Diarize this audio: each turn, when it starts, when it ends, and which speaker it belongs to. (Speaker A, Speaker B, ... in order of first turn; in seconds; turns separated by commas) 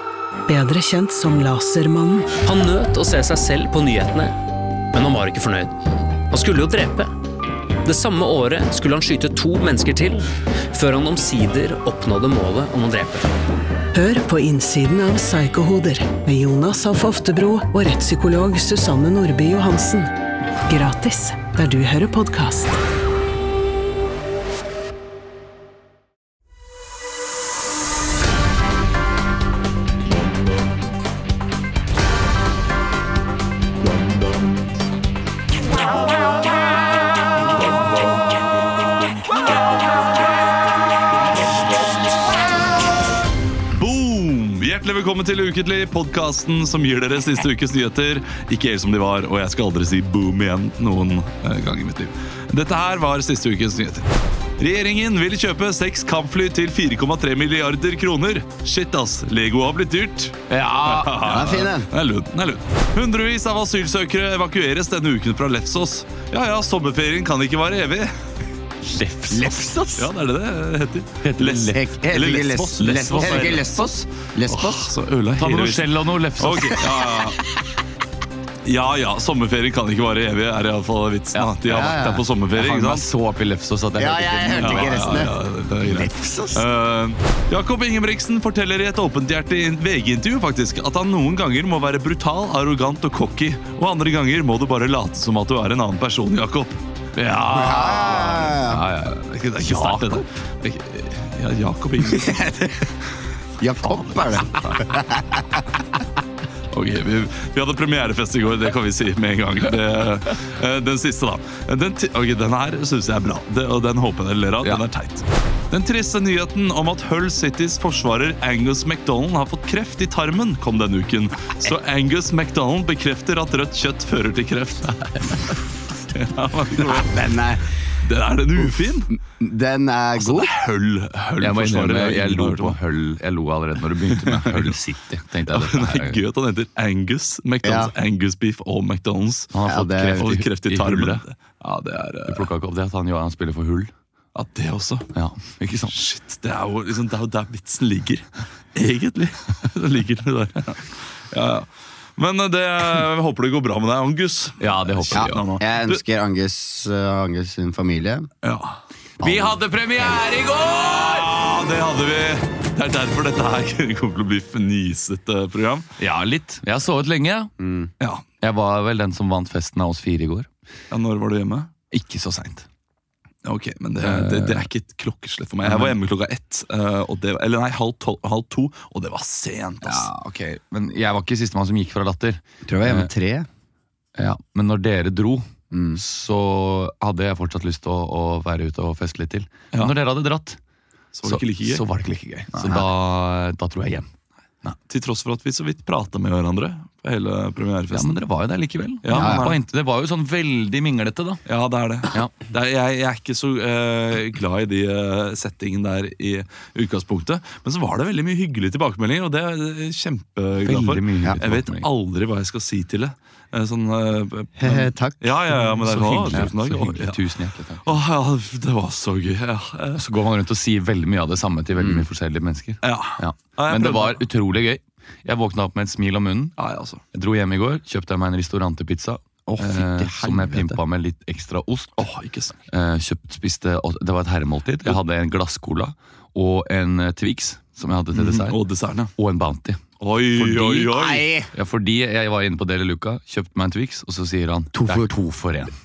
Speaker A: 0.5-2.4, Speaker B: 2.4-4.4, Speaker B: 4.9-7.1, Speaker B: 7.8-13.3, Speaker A: 13.9-20.1, Speaker A: 20.6-22.8, Speaker C: 43.7-68.2, Speaker D: 60.5-61.3, Speaker E: 61.1-61.9, Speaker D: 68.8-69.6, Speaker E: 69.3-70.1, Speaker C: 70.0-77.4, Speaker D: 71.2-71.9, Speaker E: 71.7-74.9, Speaker D: 72.8-73.7, Speaker D: 75.3-76.8, Speaker C: 78.6-83.1, Speaker E: 81.6-82.2, Speaker D: 82.5-85.3, Speaker E: 84.0-86.7, Speaker C: 84.6-96.8, Speaker D: 97.1-100.2, Speaker E: 97.5-98.8, Speaker C: 99.2-102.5, Speaker E: 102.1-102.8, Speaker E: 103.6-105.6, Speaker C: 104.2-104.9, Speaker C: 106.7-124.9, Speaker D: 124.9-125.6, Speaker C: 126.1-127.2, Speaker E: 126.8-127.7, Speaker C: 128.0-129.1, Speaker E: 129.2-130.5, Speaker C: 130.2-132.8, Speaker D: 131.4-136.2, Speaker C: 134.2-134.8, Speaker C: 135.5-139.6, Speaker E: 137.6-137.9, Speaker D: 139.5-141.2, Speaker E: 139.7-140.3, Speaker C: 140.1-142.5, Speaker D: 142.3-143.9, Speaker C: 144.3-145.1, Speaker D: 145.1-146.0, Speaker C: 145.9-156.0, Speaker D: 154.6-155.4, Speaker E: 155.1-158.3, Speaker C: 158.4-158.8, Speaker D: 159.2-161.3, Speaker E: 159.2-159.5, Speaker C: 160.7-165.9, Speaker D: 166.0-167.5, Speaker E: 167.6-167.9, Speaker C: 168.0-168.2, Speaker D: 168.4-170.5, Speaker C: 170.9-171.7, Speaker D: 171.9-172.7, Speaker C: 173.4-180.1, Speaker D: 174.0-174.7, Speaker D: 175.6-175.9, Speaker D: 179.8-183.1, Speaker E: 182.7-183.5, Speaker D: 184.2-190.6, Speaker E: 185.7-186.0, Speaker C: 191.1-191.8, Speaker D: 191.2-194.1, Speaker E: 192.6-192.8, Speaker C: 194.9-198.2, Speaker D: 197.9-201.4, Speaker C: 199.0-199.6, Speaker E: 199.1-199.5, Speaker C: 201.4-217.2, Speaker D: 210.6-211.9, Speaker E: 214.6-215.3, Speaker D: 215.7-218.0, Speaker C: 217.8-220.1, Speaker D: 220.0-226.6, Speaker E: 221.8-222.0, Speaker C: 222.8-224.2, Speaker C: 226.6-227.0, Speaker D: 227.1-232.1, Speaker C: 229.6-230.1, Speaker E: 230.0-230.8, Speaker C: 232.0-232.6, Speaker D: 232.7-238.6, Speaker C: 238.1-239.1, Speaker D: 239.2-239.8, Speaker C: 240.0-241.3, Speaker D: 240.3-240.9, Speaker E: 240.9-241.5, Speaker D: 241.5-245.7, Speaker E: 244.7-245.1